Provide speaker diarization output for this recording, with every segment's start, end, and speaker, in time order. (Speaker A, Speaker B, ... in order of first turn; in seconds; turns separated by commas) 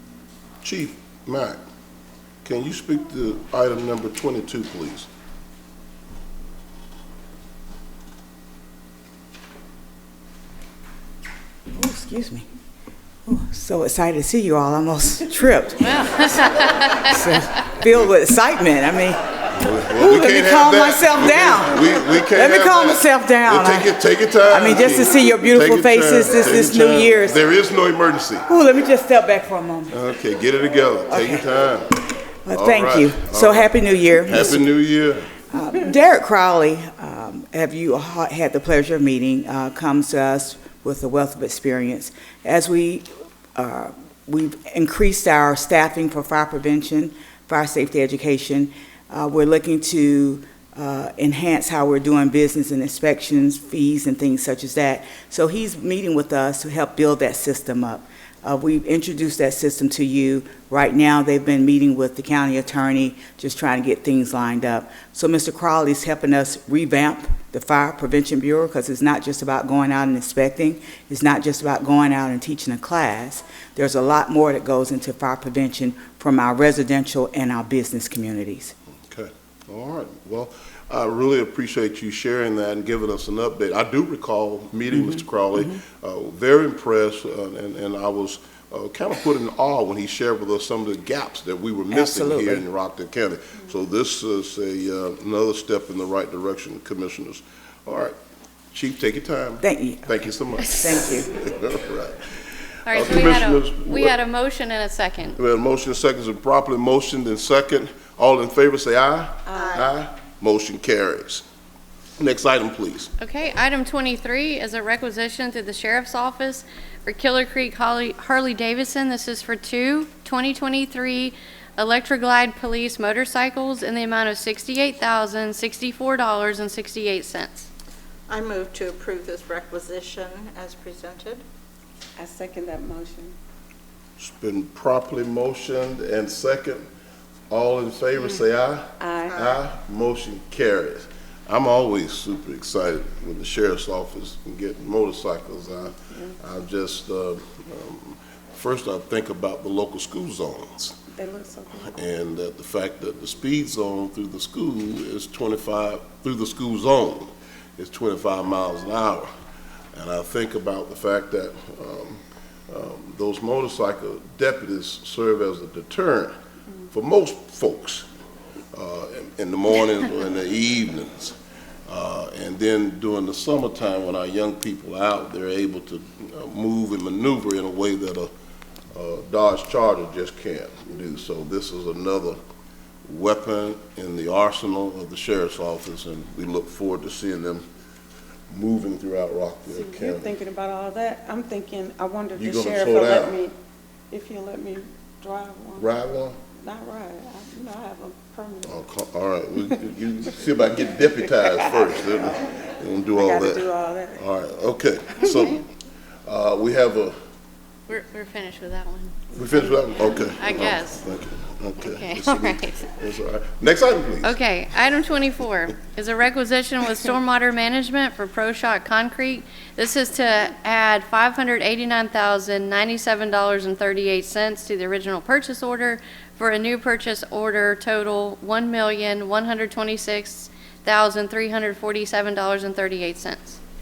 Speaker A: 0.6-1.6, Speaker A: 2.4-5.1, Speaker B: 11.7-12.5, Speaker B: 13.2-15.9, Speaker C: 15.8-17.5, Speaker B: 17.8-19.2, Speaker A: 19.6-28.5, Speaker B: 19.9-23.9, Speaker B: 24.4-27.4, Speaker B: 28.5-29.9, Speaker A: 29.9-32.0, Speaker B: 31.1-31.4, Speaker B: 32.5-34.6, Speaker A: 32.5-35.3, Speaker B: 35.5-78.7, Speaker A: 79.1-98.2, Speaker B: 85.0-85.7, Speaker B: 91.9-92.7, Speaker A: 98.7-102.2, Speaker B: 99.6-100.1, Speaker B: 100.8-101.3, Speaker C: 102.9-105.3, Speaker A: 102.9-104.2, Speaker A: 105.4-111.4, Speaker D: 109.5-109.8, Speaker E: 109.5-109.8, Speaker A: 112.2-113.1, Speaker C: 113.2-127.7, Speaker E: 128.3-131.4, Speaker D: 132.2-133.3, Speaker A: 134.2-136.8, Speaker A: 137.5-151.0, Speaker D: 139.0-139.4, Speaker E: 139.3-139.6, Speaker D: 146.0-146.4, Speaker D: 151.1-152.0, Speaker A: 151.9-159.3, Speaker A: 159.9-166.3, Speaker A: 166.9-168.1, Speaker A: 168.7-171.3, Speaker A: 171.9-178.3, Speaker A: 178.9-182.4, Speaker A: 183.1-187.7, Speaker A: 188.5-190.4, Speaker D: 189.7-193.6, Speaker A: 192.4-193.4, Speaker D: 194.1-195.9, Speaker A: 195.8-196.4, Speaker D: 196.6-198.8, Speaker A: 198.6-205.7, Speaker D: 201.2-201.7, Speaker D: 203.2-204.2, Speaker D: 205.1-205.6, Speaker A: 206.3-207.2, Speaker C: 207.9-209.2, Speaker A: 209.4-214.4, Speaker C: 209.9-211.0, Speaker C: 211.8-212.9, Speaker C: 214.2-233.6